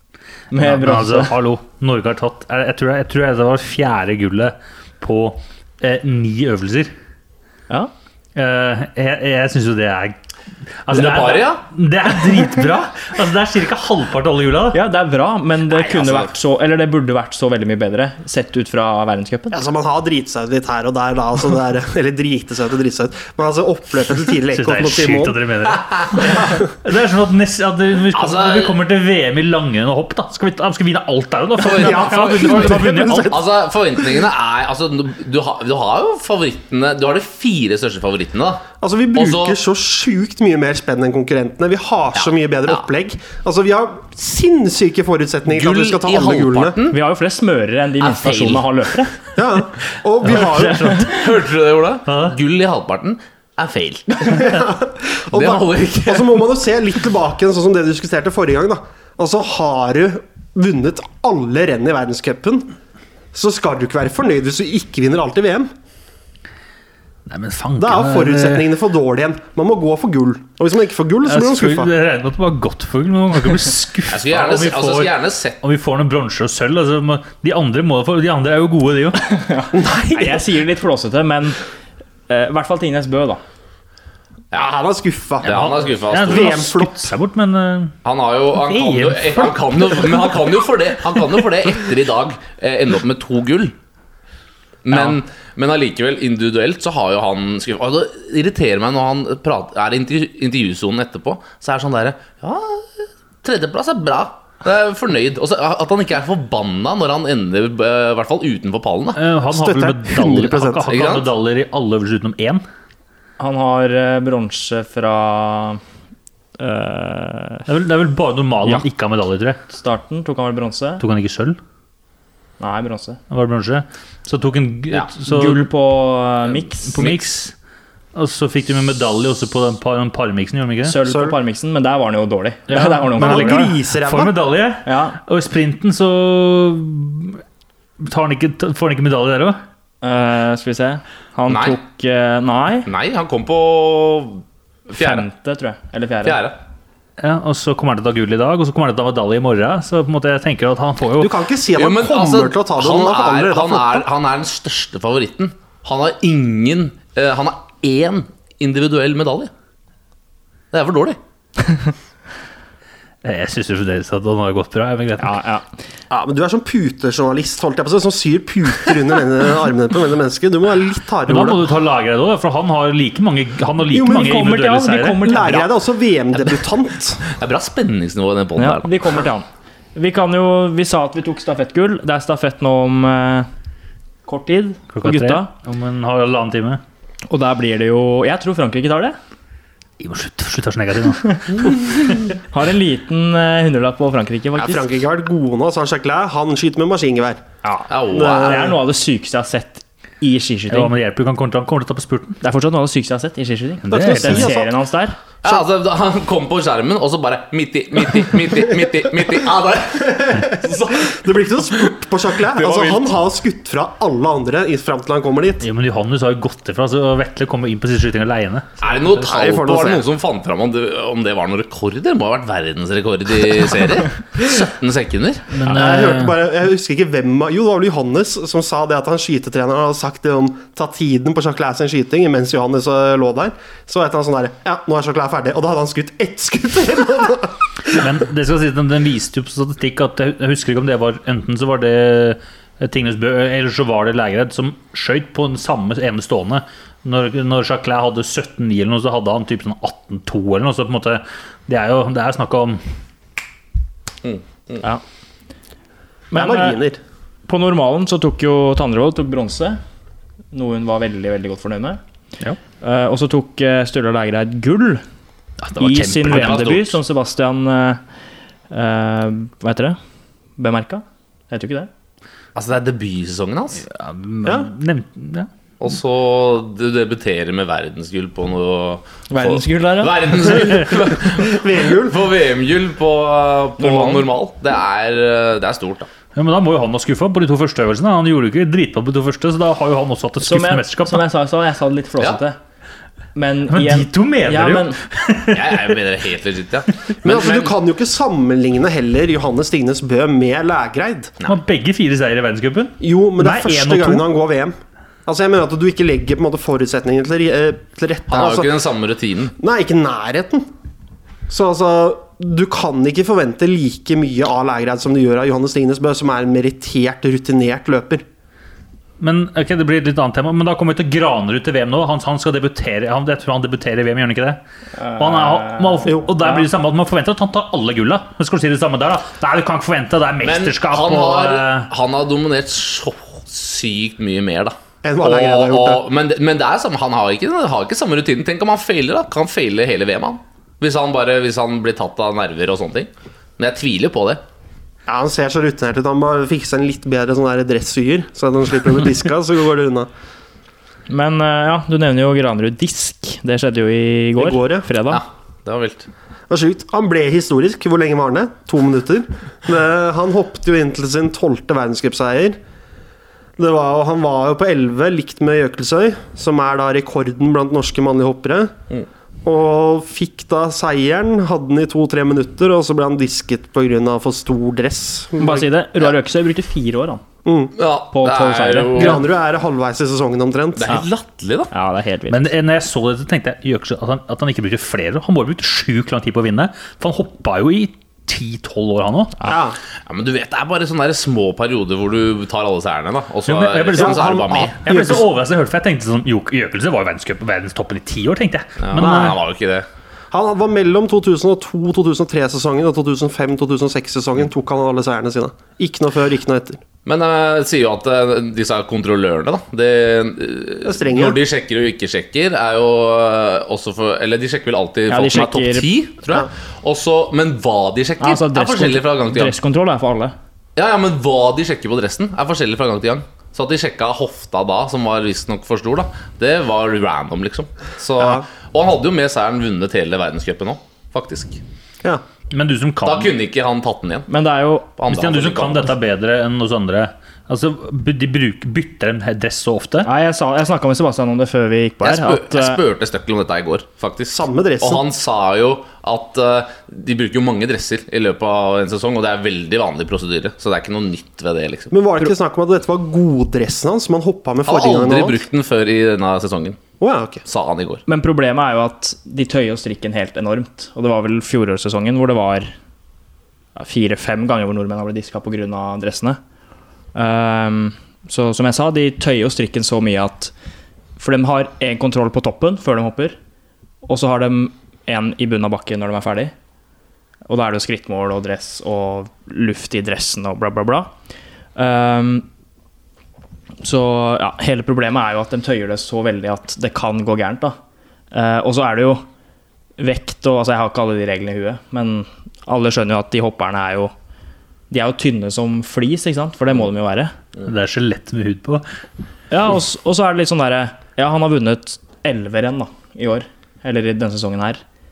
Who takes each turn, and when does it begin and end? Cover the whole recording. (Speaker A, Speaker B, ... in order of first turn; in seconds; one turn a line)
Speaker A: 0.5-1.3
Speaker B: 0.6-6.9
Speaker B: 8.3-10.2
Speaker B: 10.8-14.8
Speaker C: 10.9-11.6
Speaker A: 14.7-19.6
Speaker C: 15.7-16.3
Speaker D: 19.5-25.4
Speaker B: 24.5-33.4
Speaker C: 25.7-26.1
Speaker D: 26.2-26.6
Speaker C: 28.1-28.8
Speaker C: 31.6-39.6
Speaker D: 31.7-33.5
Speaker D: 38.8-46.8
Speaker C: 42.1-42.8
Speaker C: 45.5-47.0
Speaker A: 46.9-49.1
Speaker C: 48.0-48.7
Speaker D: 49.4-51.0
Speaker B: 50.2-51.2
Speaker A: 50.3-51.1
Speaker C: 51.0-54.5
Speaker B: 52.1-52.4
Speaker D: 54.2-62.7
Speaker C: 55.3-56.4
Speaker D: 63.3-65.7
Speaker B: 67.2-68.7
Speaker D: 67.8-71.9
Speaker B: 71.2-79.4
Speaker C: 74.1-75.6
Speaker A: 79.3-81.6
Speaker D: 79.7-80.5
Speaker A: 82.3-83.4
Speaker D: 84.5-87.1
Speaker C: 85.4-86.6
Speaker B: 85.4-87.9
Speaker C: 88.0-93.7
Speaker B: 88.6-89.5
Speaker C: 94.8-109.2
Speaker B: 109.1-112.6
Speaker D: 109.5-111.2
Speaker C: 110.9-111.2
Speaker A: 113.4-115.8
Speaker A: 116.6-117.7
Speaker B: 117.7-119.6
Speaker A: 119.7-121.0
Speaker B: 121.0-121.6
Speaker A: 122.6-123.2
Speaker B: 123.3-125.6
Speaker A: 125.2-127.0
Speaker B: 126.8-127.5
Speaker C: 127.0-127.3
Speaker B: 128.1-131.0
Speaker A: 130.8-133.7
Speaker D: 131.0-131.3
Speaker B: 132.7-137.4
Speaker D: 133.2-134.3
Speaker A: 134.8-135.2
Speaker B: 138.0-139.6
Speaker A: 140.0-142.9
Speaker C: 141.5-141.8
Speaker C: 142.8-145.2
Speaker A: 144.9-146.4
Speaker C: 146.2-146.6
Speaker B: 147.2-151.3
Speaker D: 151.2-154.1
Speaker C: 151.7-159.5
Speaker C: 160.7-161.2
Speaker B: 163.2-165.3
Speaker A: 165.2-165.6
Speaker D: 166.1-171.7
Speaker B: 171.3-175.3
Speaker D: 173.9-174.4
Speaker A: 173.9-175.7
Speaker D: 175.2-177.2
Speaker C: 177.2-179.2
Speaker A: 178.6-183.5
Speaker A: 184.2-185.5
Speaker B: 184.9-186.8
Speaker A: 187.3-189.2
Speaker B: 190.0-192.1
Speaker A: 191.2-194.9
Speaker D: 194.6-197.4
Speaker A: 197.6-200.9
Speaker C: 197.9-198.7
Speaker D: 198.1-198.8
Speaker B: 200.7-202.4
Speaker A: 202.4-205.2
Speaker B: 203.8-204.5
Speaker D: 203.9-204.7
Speaker C: 205.4-211.2
Speaker D: 210.0-215.7
Speaker C: 212.4-213.1
Speaker B: 215.6-218.9
Speaker C: 218.8-225.6
Speaker D: 219.1-220.1
Speaker B: 225.5-226.4
Speaker D: 225.6-237.9
Speaker B: 237.9-252.8
Speaker C: 254.2-254.8
Speaker D: 256.3-257.0
Speaker A: 256.3-256.8
Speaker A: 257.5-259.8
Speaker A: 260.5-262.0
Speaker A: 262.8-265.0
Speaker B: 265.6-266.8
Speaker A: 265.8-268.0
Speaker C: 266.2-266.9
Speaker A: 268.7-270.0
Speaker A: 270.6-271.9
Speaker C: 272.5-273.8
Speaker B: 273.8-275.5
Speaker D: 274.4-274.7
Speaker C: 275.8-286.1
Speaker A: 279.3-280.5
Speaker D: 280.8-282.3
Speaker A: 283.8-284.3
Speaker B: 286.3-291.2
Speaker A: 290.4-292.6
Speaker A: 293.3-295.0
Speaker B: 293.7-296.0
Speaker C: 295.5-297.7
Speaker D: 297.2-301.3
Speaker B: 301.5-304.2
Speaker D: 303.0-308.7
Speaker C: 308.3-309.5
Speaker D: 309.6-310.7
Speaker D: 311.5-318.2
Speaker B: 319.2-324.6
Speaker A: 325.0-326.6
Speaker B: 325.1-331.9
Speaker C: 330.4-344.4
Speaker D: 335.0-336.0
Speaker D: 345.1-350.1
Speaker A: 351.1-355.2
Speaker D: 354.4-354.9
Speaker C: 355.1-356.1
Speaker D: 356.5-362.6
Speaker D: 363.6-368.7
Speaker D: 369.4-375.7
Speaker A: 375.4-377.2
Speaker D: 377.4-377.7
Speaker C: 377.8-379.2
Speaker A: 378.1-379.1
Speaker D: 378.9-381.0
Speaker C: 380.8-381.7
Speaker A: 381.7-382.5
Speaker B: 382.3-389.4
Speaker D: 389.4-389.8
Speaker C: 390.1-394.8
Speaker B: 393.5-399.4
Speaker D: 393.9-395.2
Speaker C: 398.8-399.9
Speaker D: 398.9-399.4
Speaker D: 400.3-406.8
Speaker C: 407.1-419.6
Speaker D: 410.8-411.4
Speaker A: 415.1-415.9
Speaker A: 418.2-420.3
Speaker C: 420.8-431.6
Speaker D: 428.2-428.4
Speaker B: 432.5-433.3
Speaker C: 433.0-434.3
Speaker A: 434.3-434.9
Speaker C: 435.0-435.9
Speaker B: 435.1-440.1
Speaker A: 440.0-442.8
Speaker C: 442.0-451.9
Speaker D: 444.3-445.0
Speaker D: 451.9-455.4
Speaker C: 454.6-456.8
Speaker D: 457.0-457.4
Speaker C: 457.4-458.0
Speaker A: 458.1-462.7
Speaker A: 463.8-466.4
Speaker A: 467.1-470.5
Speaker A: 471.2-473.4
Speaker A: 474.0-476.5
Speaker A: 477.5-481.1
Speaker A: 481.8-482.5
Speaker A: 483.8-487.8
Speaker A: 488.3-489.2
Speaker A: 490.0-494.1
Speaker A: 494.9-497.3
Speaker B: 497.6-498.9
Speaker A: 499.5-504.8